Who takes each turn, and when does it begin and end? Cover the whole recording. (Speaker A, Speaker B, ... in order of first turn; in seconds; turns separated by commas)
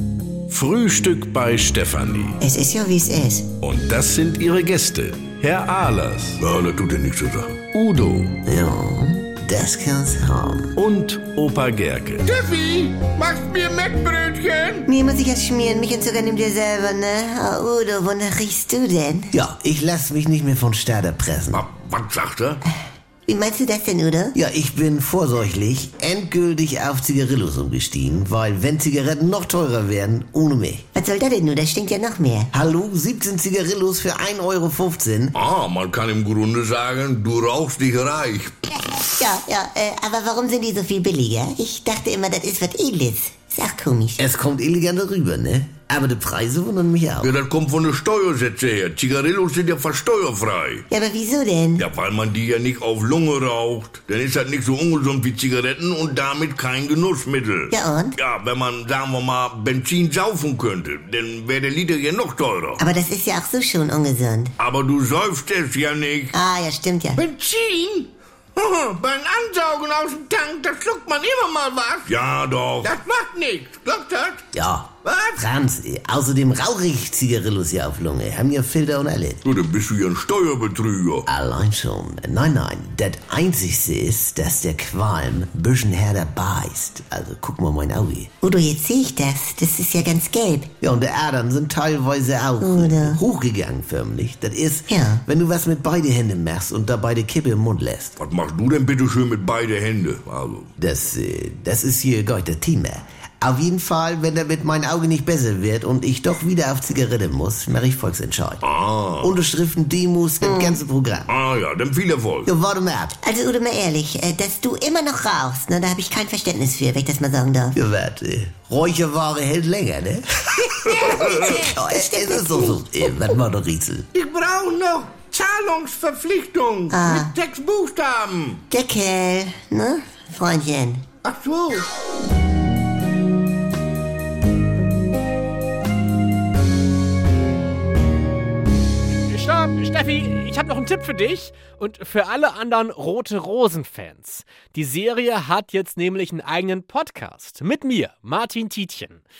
Speaker A: 0.5-2.4, Speaker B: 2.4-3.5, Speaker A: 3.6-6.4, Speaker C: 6.4-7.8, Speaker A: 7.7-8.4, Speaker D: 8.4-10.8, Speaker A: 10.8-12.3, Speaker E: 12.2-14.8, Speaker B: 14.9-19.3, Speaker D: 19.3-21.6, Speaker C: 21.5-22.6, Speaker B: 23.3-24.3, Speaker D: 24.3-30.9, Speaker B: 30.9-32.5, Speaker D: 32.5-35.3, Speaker C: 35.3-38.7, Speaker B: 39.0-44.2, Speaker D: 44.2-47.3, Speaker C: 47.2-50.9, Speaker B: 50.9-51.9, Speaker C: 51.8-62.8, Speaker B: 57.7-58.1, Speaker B: 62.8-64.5, Speaker C: 64.6-66.3, Speaker B: 66.3-67.2, Speaker E: 67.2-72.1, Speaker C: 72.0-73.0, Speaker E: 72.8-74.4, Speaker D: 74.5-79.4, Speaker E: 75.0-75.3, Speaker C: 79.4-81.2, Speaker D: 81.3-88.3, Speaker B: 88.4-90.7, Speaker D: 90.8-98.2, Speaker B: 92.6-93.2, Speaker B: 94.9-95.2, Speaker C: 98.2-100.7, Speaker D: 100.8-108.6, Speaker C: 108.6-109.3, Speaker D: 109.2-111.3, Speaker B: 110.4-110.8, Speaker C: 111.3-112.5, Speaker D: 112.5-113.2, Speaker B: 113.2-117.8, Speaker D: 117.8-124.1, Speaker C: 121.0-121.3, Speaker B: 121.2-122.8, Speaker E: 124.1-128.6, Speaker B: 126.9-127.3, Speaker B: 128.7-131.0, Speaker E: 131.2-131.8, Speaker F: 139.1-149.2